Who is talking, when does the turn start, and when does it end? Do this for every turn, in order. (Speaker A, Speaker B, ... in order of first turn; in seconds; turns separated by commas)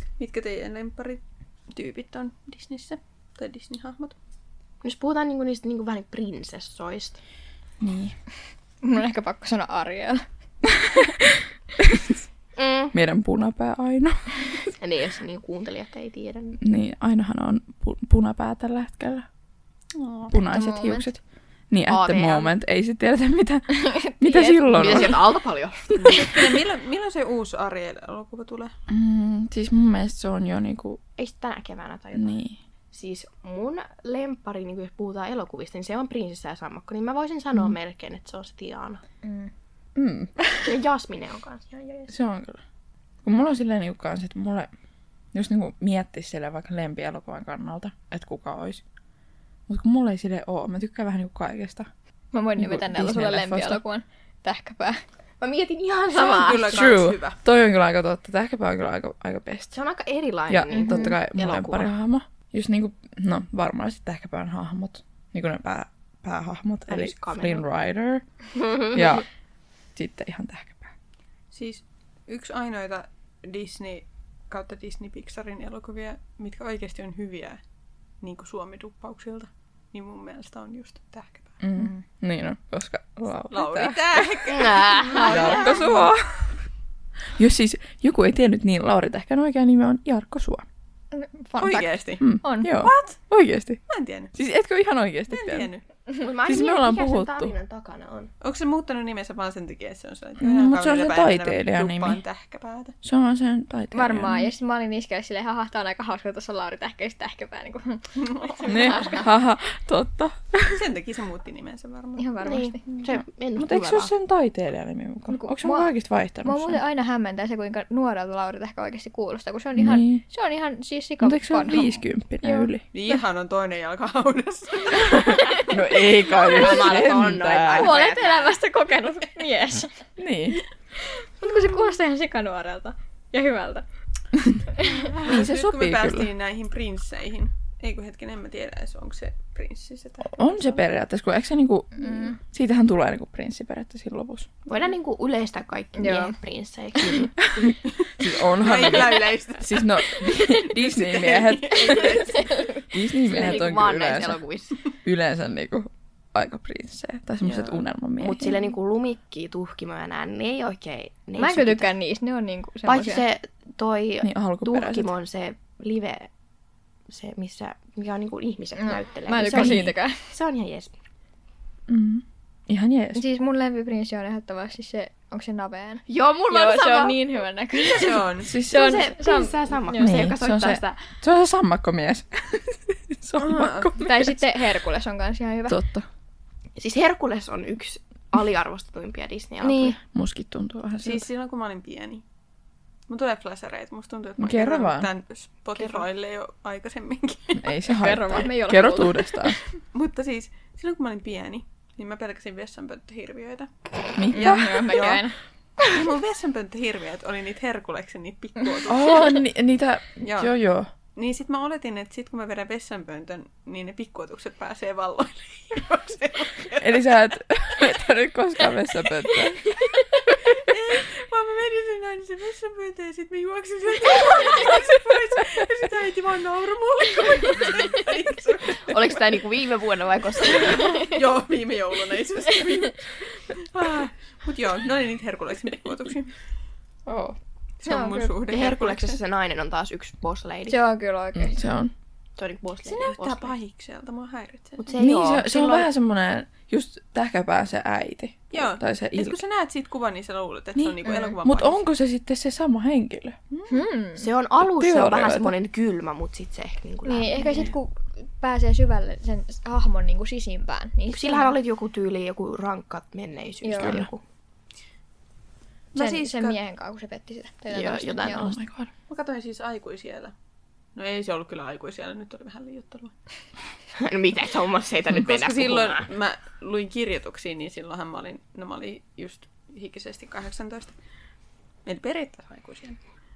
Speaker A: 0.2-4.2, Speaker B: 4.8-7.2, Speaker C: 7.8-8.2, Speaker D: 8.8-10.2, Speaker C: 11.8-12.1, Speaker B: 12.6-12.9, Speaker C: 12.9-14.7, Speaker B: 14.8-16.6, Speaker C: 16.6-19.2, Speaker A: 19.9-20.3, Speaker C: 20.3-25.2, Speaker D: 20.4-21.1, Speaker B: 21.9-22.5, Speaker D: 23.7-25.2, Speaker B: 24.7-26.6, Speaker A: 25.9-28.7, Speaker C: 28.9-31.0, Speaker B: 31.2-32.4, Speaker C: 32.1-32.6, Speaker B: 32.9-39.0, Speaker D: 39.2-39.5, Speaker C: 40.0-40.7, Speaker B: 40.6-42.1, Speaker C: 42.1-42.6, Speaker C: 43.2-44.7, Speaker C: 45.3-48.8, Speaker C: 49.7-51.9, Speaker D: 52.3-55.0, Speaker C: 52.6-53.8, Speaker B: 55.4-56.9, Speaker A: 56.1-57.4, Speaker C: 56.7-59.7, Speaker B: 59.7-61.9, Speaker C: 60.5-68.2, Speaker D: 60.7-61.1, Speaker B: 66.9-67.6, Speaker B: 68.5-69.0, Speaker C: 68.9-69.2, Speaker C: 69.9-70.9, Speaker A: 71.5-77.6, Speaker A: 78.2-81.5, Speaker C: 81.6-84.4, Speaker D: 81.8-82.0, Speaker A: 83.5-86.1, Speaker B: 84.5-85.9, Speaker C: 85.2-86.6, Speaker C: 87.3-90.6, Speaker D: 91.1-92.7, Speaker A: 91.6-93.2, Speaker C: 92.2-93.8, Speaker A: 93.9-94.3, Speaker C: 94.3-95.7, Speaker A: 95.3-95.8, Speaker B: 96.2-98.3, Speaker C: 96.4-97.5, Speaker A: 98.4-102.9, Speaker C: 100.4-102.2, Speaker C: 103.0-104.5, Speaker D: 103.9-109.3, Speaker A: 108.2-108.9, Speaker C: 108.7-110.8, Speaker A: 110.7-112.4, Speaker D: 112.2-113.0, Speaker B: 112.4-114.1, Speaker C: 113.5-116.8, Speaker D: 115.3-115.9, Speaker D: 116.4-122.7, Speaker C: 119.8-120.2, Speaker C: 121.2-122.8, Speaker A: 122.9-125.6, Speaker C: 125.2-128.0, Speaker D: 125.3-125.7, Speaker B: 126.3-128.5, Speaker D: 127.8-130.1, Speaker C: 130.2-130.6, Speaker D: 131.0-133.8, Speaker D: 134.7-135.1, Speaker A: 135.1-140.8, Speaker C: 135.2-136.3, Speaker C: 140.2-144.5, Speaker D: 142.0-142.4, Speaker B: 144.7-147.7, Speaker D: 145.9-146.4, Speaker C: 147.6-152.3, Speaker A: 148.5-152.7, Speaker D: 152.0-152.8, Speaker C: 152.9-154.4, Speaker B: 153.2-154.9, Speaker C: 155.0-158.6, Speaker A: 157.4-157.8, Speaker B: 158.2-161.9, Speaker D: 161.4-163.2, Speaker B: 162.8-166.3, Speaker C: 164.2-165.1, Speaker B: 167.1-170.9, Speaker D: 168.8-170.3, Speaker C: 169.4-169.9, Speaker C: 171.9-173.2, Speaker D: 173.1-180.2, Speaker B: 176.1-177.2, Speaker A: 177.8-178.5, Speaker C: 178.4-179.0, Speaker B: 178.6-181.1, Speaker C: 179.9-184.6, Speaker A: 183.4-183.9, Speaker D: 184.0-185.8, Speaker C: 185.7-186.1, Speaker B: 186.8-190.0, Speaker D: 189.6-190.0, Speaker C: 190.1-191.2, Speaker A: 191.0-192.2, Speaker A: 193.1-197.7, Speaker C: 194.4-195.1, Speaker B: 195.8-196.0, Speaker C: 197.6-199.6, Speaker D: 197.9-199.5, Speaker A: 199.9-205.3, Speaker C: 204.2-205.2, Speaker D: 204.3-205.3, Speaker A: 205.8-209.4, Speaker C: 208.9-210.9, Speaker A: 210.2-210.5, Speaker A: 211.1-217.0, Speaker C: 216.8-219.8, Speaker A: 220.5-229.2, Speaker B: 228.9-231.0, Speaker A: 230.4-236.3, Speaker C: 237.1-237.4, Speaker A: 237.8-239.2, Speaker D: 237.8-238.3, Speaker B: 238.5-240.8, Speaker D: 240.7-241.6, Speaker C: 241.3-241.9, Speaker B: 242.3-243.5, Speaker A: 242.8-244.9, Speaker B: 244.8-245.9, Speaker C: 245.0-249.4, Speaker A: 248.5-251.8, Speaker C: 250.8-253.4, Speaker D: 251.0-251.3, Speaker A: 253.5-253.8, Speaker D: 253.7-254.3, Speaker B: 254.2-257.8, Speaker C: 254.6-255.6, Speaker D: 257.0-261.5, Speaker B: 261.1-264.2, Speaker D: 263.6-264.0, Speaker C: 263.8-264.1, Speaker A: 265.9-266.6, Speaker D: 265.9-268.6, Speaker B: 267.7-268.5, Speaker C: 268.3-268.9, Speaker A: 269.1-270.3, Speaker A: 270.9-273.1, Speaker B: 274.0-276.1, Speaker A: 275.1-280.9, Speaker A: 281.9-283.0